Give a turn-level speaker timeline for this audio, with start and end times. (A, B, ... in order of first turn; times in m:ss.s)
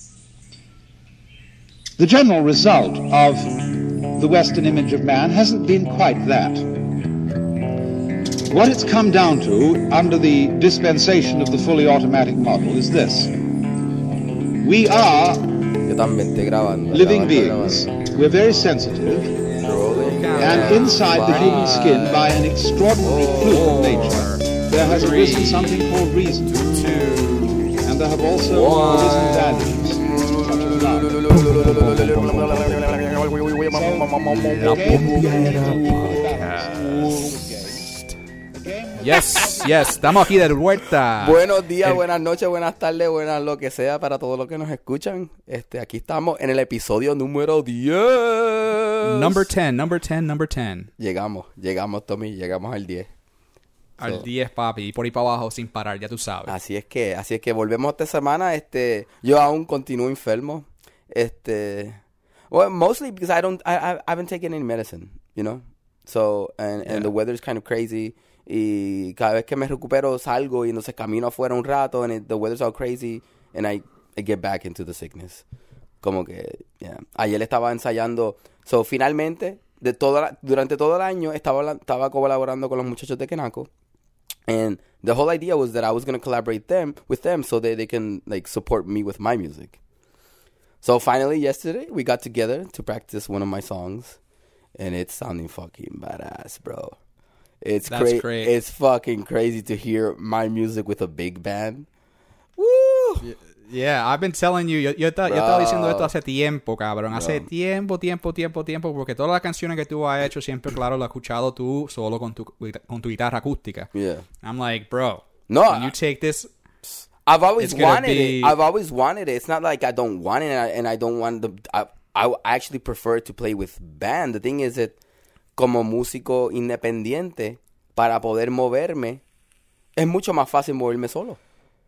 0:02.0-0:03.6 A
0:04.1-0:06.6 A
0:08.4-0:13.3 A
0:14.6-0:15.6 A
0:15.8-0:17.9 B
0:16.9-0:19.3 A
0:19.1-0:22.3 B
0:20.0-0:22.0 C
0:20.4-0:27.2 A
0:23.0-0:24.2 B
0:23.4-0:25.8 C
0:26.5-0:27.6 C
0:27.7-0:31.2 A
0:28.5-0:29.8 C
0:30.0-0:36.3 B
0:31.3-0:33.0 C
0:33.7-0:37.9 A
0:34.3-0:37.3 C
0:38.5-0:40.3 A
0:39.0-0:42.0 C
0:39.1-0:39.4 B
0:41.2-0:49.5 B
0:49.0-0:50.9 C
0:51.0-0:53.1 B
0:54.0-0:56.5 C
0:56.5-1:02.0 B
1:02.5-1:15.4 B
1:16.0-1:23.7 B
1:24.5-1:29.8 B
1:30.8-1:34.2 B
1:34.8-1:37.0 B
1:37.6-1:41.9 B
1:37.9-1:38.5 C
1:42.6-1:43.3 B
1:43.2-1:53.9 C
1:45.2-1:46.1 B
1:47.1-1:47.4 B
1:53.9-1:54.2 B
1:54.4-1:57.0 C
1:55.5-1:55.9 B
1:57.2-2:05.0 B
1:57.6-1:58.6 C
2:05.6-2:09.2 B
2:10.0-2:11.4 B